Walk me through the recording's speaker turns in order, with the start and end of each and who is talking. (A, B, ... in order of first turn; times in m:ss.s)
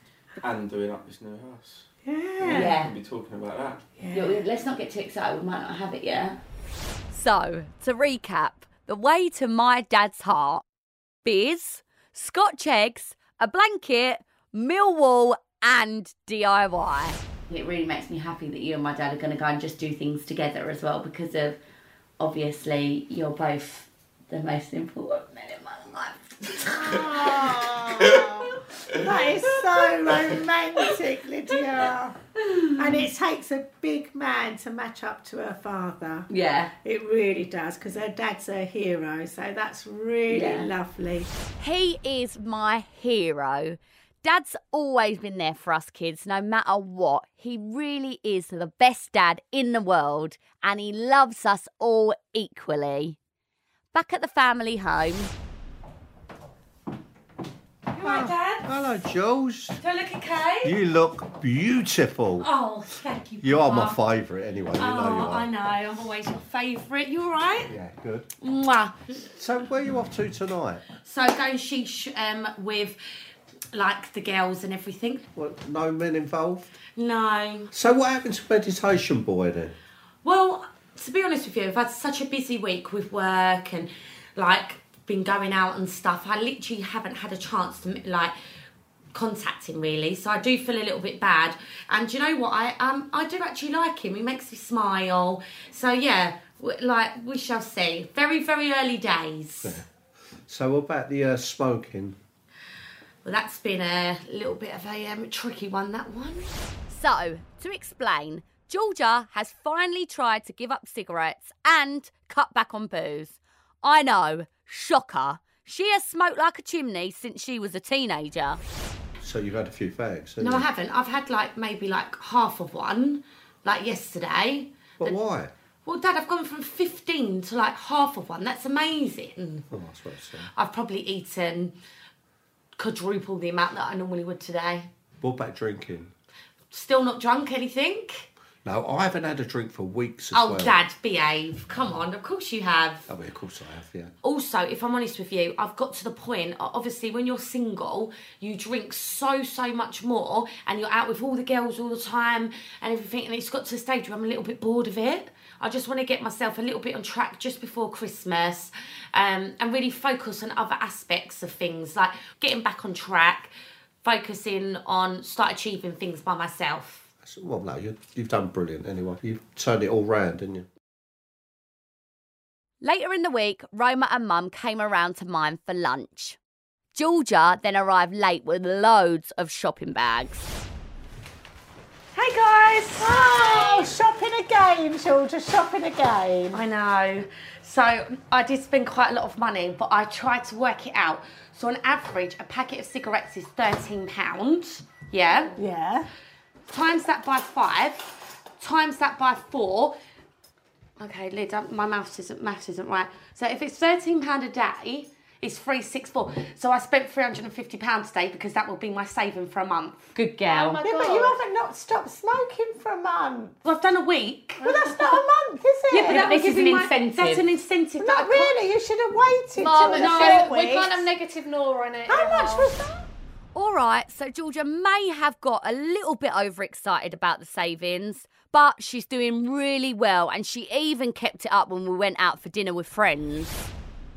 0:00.4-0:01.8 A
0:02.0-0:02.7 B
0:02.4-0:03.8 A
0:02.5-0:02.9 C
0:04.0-0:04.4 B
0:04.1-0:06.4 C
0:07.1-0:10.6 C
0:11.2-0:21.6 C
0:22.2-0:28.2 C
0:26.8-0:32.2 B
0:32.7-0:36.3 B
0:36.3-0:36.7 C
0:36.8-0:41.3 B
0:40.3-0:40.7 C
0:41.6-0:53.2 C
0:53.9-0:55.3 C
0:57.9-0:58.7 D
0:58.0-0:59.8 E
0:59.8-1:00.8 D
1:00.6-1:02.5 E
1:02.4-1:04.0 D
1:03.4-1:05.5 E
1:04.8-1:07.7 D
1:07.6-1:08.3 E
1:08.4-1:08.9 D
1:09.4-1:10.8 E
1:11.0-1:13.0 D
1:13.7-1:15.2 D
1:15.4-1:16.7 E
1:17.0-1:17.7 D
1:17.7-1:19.7 E
1:20.2-1:28.3 D
1:29.1-1:39.8 D
1:40.5-1:42.2 E
1:43.2-1:46.5 D
1:46.9-1:58.6 C
1:59.2-2:00.7 E
2:00.4-2:05.2 D
2:05.0-2:05.5 E
2:05.8-2:09.7 D
2:09.7-2:10.5 E
2:10.5-2:11.8 D
2:12.8-2:14.9 D
2:15.2-2:16.1 E
2:16.7-2:18.2 D
2:18.6-2:20.8 E
2:20.3-2:23.1 D
2:23.1-2:24.1 E
2:24.2-2:43.5 D
2:44.0-2:47.0 D
2:47.2-2:50.6 E
2:52.8-2:56.4 C
2:56.9-3:00.5 C
3:02.1-3:03.8 D
3:03.0-3:06.6 B
3:06.5-3:15.6 D
3:15.6-3:16.1 B
3:16.7-3:19.9 D
3:21.0-3:30.1 D
3:30.1-3:30.8 C
3:30.5-3:31.4 F
3:30.5-3:33.5 B
3:33.6-3:34.7 D
3:34.6-3:36.3 B
3:35.9-3:38.6 D
3:36.0-3:37.4 C
3:38.0-3:41.1 B
3:39.5-3:42.7 F
3:39.8-3:40.4 D
3:42.1-3:43.0 B
3:43.5-3:53.7 C